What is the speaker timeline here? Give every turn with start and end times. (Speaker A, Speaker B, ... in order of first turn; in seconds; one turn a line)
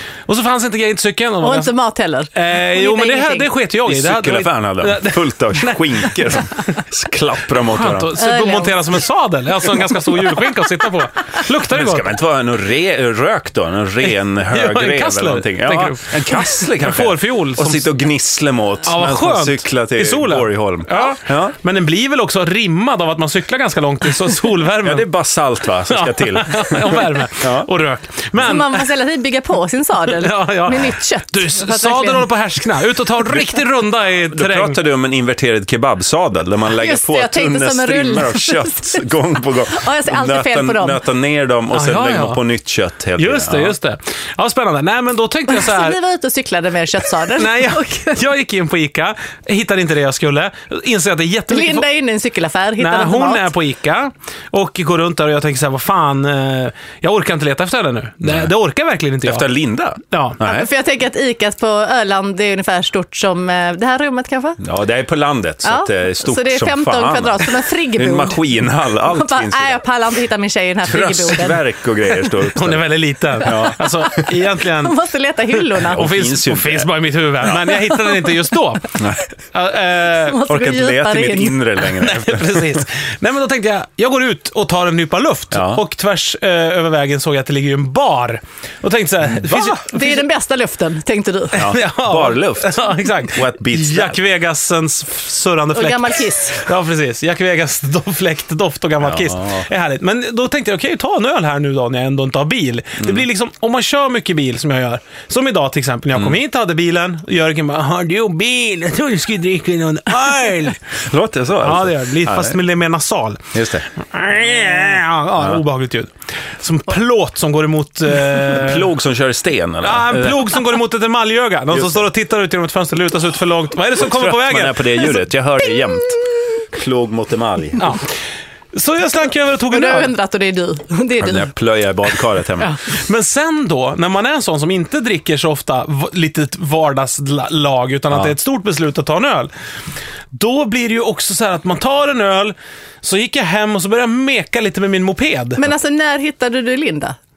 Speaker A: 0.3-1.7
Speaker B: 1.4-3.5
Speaker A: 2.3-6.8
Speaker C: 3.8-8.2
Speaker A: 7.7-12.1
Speaker B: 8.2-9.0
Speaker C: 11.7-21.5
Speaker A: 14.0-17.9
Speaker A: 18.8-25.1
Speaker C: 24.8-27.7
Speaker A: 25.9-28.9
Speaker B: 28.4-32.3
Speaker A: 30.1-34.8
Speaker C: 34.3-43.8
Speaker B: 36.8-39.0
Speaker B: 39.7-41.0
Speaker A: 41.7-42.4
Speaker A: 43.2-46.0
Speaker B: 45.5-48.2
Speaker A: 47.3-51.9
Speaker B: 51.5-53.5
Speaker A: 52.8-59.5
Speaker C: 58.2-58.5
Speaker C: 59.2-60.7
Speaker A: 60.1-60.4
Speaker B: 60.4-64.6
Speaker C: 64.6-69.8
Speaker B: 65.6-72.3
Speaker C: 70.8-72.9
Speaker A: 72.5-74.9
Speaker C: 73.4-74.2
Speaker B: 73.5-76.0
Speaker C: 75.8-77.8
Speaker A: 75.8-79.0
Speaker B: 77.9-78.4
Speaker C: 79.0-79.3
Speaker A: 79.5-80.4
Speaker B: 80.1-81.6
Speaker C: 80.5-82.8
Speaker A: 82.0-90.2
Speaker C: 85.5-85.8
Speaker B: 89.5-91.7
Speaker A: 91.5-110.8
Speaker C: 91.5-94.2
Speaker B: 95.7-96.7
Speaker C: 99.0-99.7
Speaker C: 111.0-112.6
Speaker A: 111.6-118.9
Speaker C: 113.5-113.9
Speaker C: 115.4-115.6
Speaker C: 118.4-120.5
Speaker A: 119.8-125.1
Speaker C: 121.7-122.0
Speaker C: 124.0-127.9
Speaker A: 127.8-128.1
Speaker A: 128.7-130.1
Speaker B: 129.7-131.5
Speaker C: 131.2-132.7
Speaker A: 132.9-139.5
Speaker A: 140.3-145.7
Speaker B: 145.6-147.2